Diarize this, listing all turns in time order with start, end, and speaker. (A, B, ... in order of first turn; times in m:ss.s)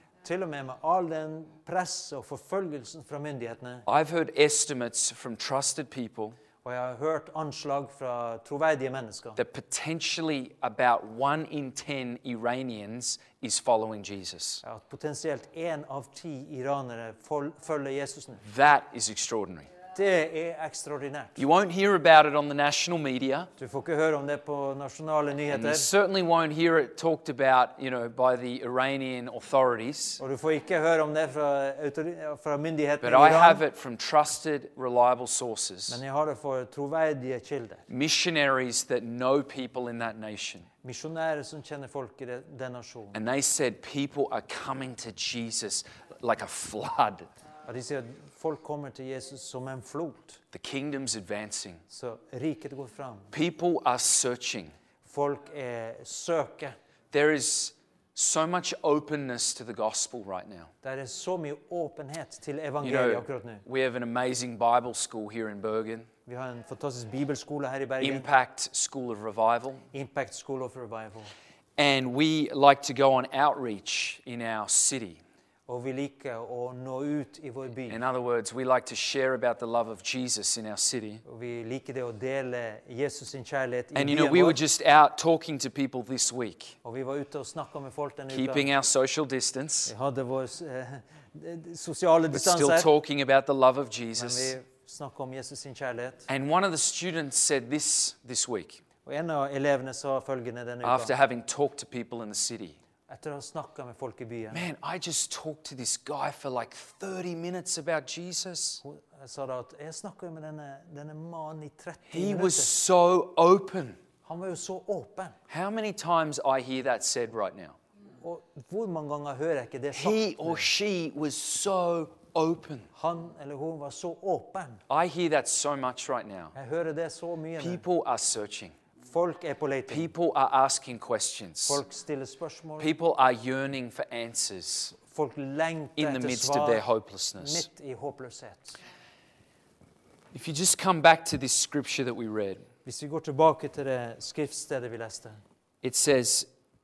0:00.2-0:03.8 A
0:03.9-0:06.4 B
0:06.6-0:09.4 A
0:09.4-0:14.6 B
0:14.6-0:18.4 A
0:18.4-0:19.7 B
0:19.9-0:21.4 A
0:21.4-0:23.5 B
0:23.6-0:25.9 A
0:25.5-0:30.2 B
0:30.2-0:33.6 A
0:33.0-0:36.0 B
0:35.9-0:37.8 A
0:37.9-0:40.7 B
0:40.8-0:43.2 A
0:43.1-0:47.3 B
0:47.7-0:50.4 A
0:50.5-0:51.8 B
0:51.9-0:53.3 A
0:53.3-0:54.7 B
0:55.0-0:56.8 A
0:57.1-1:00.7 B
1:00.8-1:03.6 A
1:02.8-1:06.1 B
1:06.2-1:08.2 A
1:08.0-1:09.8 B
1:09.9-1:11.3 A
1:11.8-1:15.2 B
1:15.7-1:18.0 A
1:17.9-1:21.2 B
1:21.2-1:24.6 A
1:23.9-1:26.8 B
1:26.8-1:28.7 A
1:28.3-1:29.9 B
1:29.9-1:32.9 A
1:32.3-1:34.5 B
1:34.1-1:36.3 A
1:36.3-1:38.8 B
1:39.0-1:41.1 A
1:40.8-1:42.8 B
1:43.1-1:44.6 A
1:44.5-1:48.8 B
1:48.8-1:52.7 A
1:52.1-1:54.0 B
1:54.2-1:55.4 A
1:55.5-1:57.8 B
1:58.2-2:00.6 A
1:59.9-2:02.9 B
2:02.9-2:04.8 A
2:04.9-2:06.5 B
2:06.5-2:07.8 A
2:07.6-2:08.7 B
2:09.0-2:10.1 A
2:09.9-2:11.8 B
2:11.6-2:12.9 A
2:12.8-2:14.9 B
2:15.0-2:16.8 A
2:16.0-2:17.7 B
2:17.4-2:18.8 A
2:20.3-2:22.6 B
2:22.8-2:25.4 A
2:25.8-2:26.5 B